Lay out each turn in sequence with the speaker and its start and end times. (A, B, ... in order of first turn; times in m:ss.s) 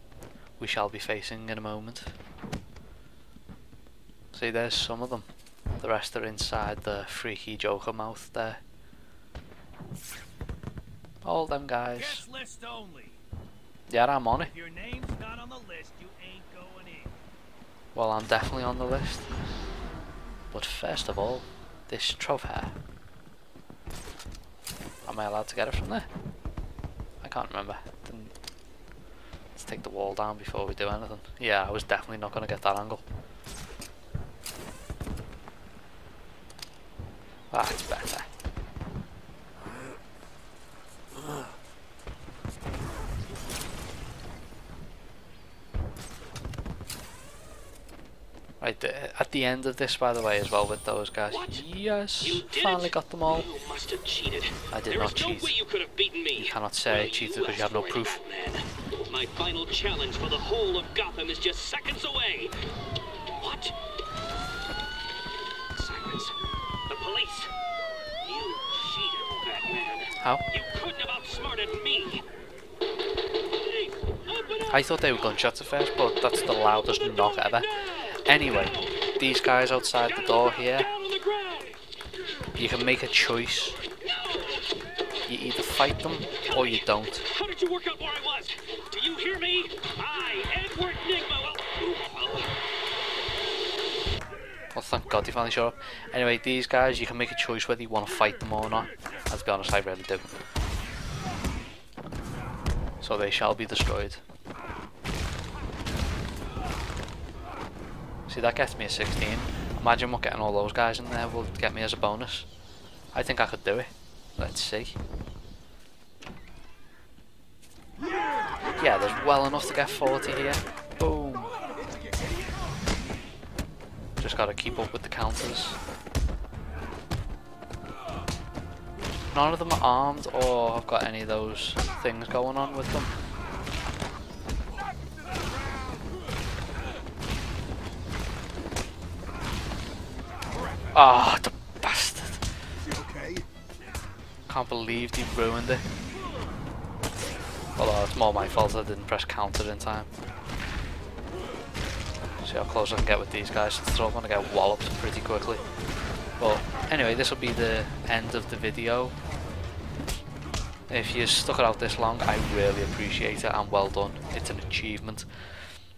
0:00.6-0:02.1 A
0:04.3-0:08.6 A
0:11.2-0:12.2 A
0:12.0-0:13.2 B
0:13.9-0:14.5 A
0:14.5-0:17.2 B
0:17.9-0:19.3 A
0:20.5-0:22.7 A
0:25.0-0:26.1 A
0:27.2-0:28.3 A
0:29.5-0:33.0 A
0:37.5-0:38.3 A
0:48.6-0:53.5 A
0:51.3-0:51.7 C
0:52.2-1:02.6 C
0:54.7-0:55.6 A
0:56.3-0:58.2 A
1:03.4-1:03.8 C
1:05.7-1:07.5 C
1:08.2-1:12.2 C
1:13.5-1:14.7 C
1:14.7-1:20.9 A
1:20.0-1:21.8 C
1:22.6-1:23.8 A
1:24.0-1:24.7 C
1:25.2-1:27.3 A
1:26.4-1:32.6 C
1:34.7-1:40.4 A
1:43.0-1:44.2 A
1:48.3-1:52.5 A
1:53.1-1:55.0 A
1:58.8-2:01.6 A
2:04.2-2:05.8 A
2:09.3-2:13.1 A
2:20.9-2:22.4 A
2:24.5-2:25.8 A
2:27.8-2:30.1 A
2:32.4-2:35.6 A
2:36.4-2:39.2 A
2:40.9-2:45.3 A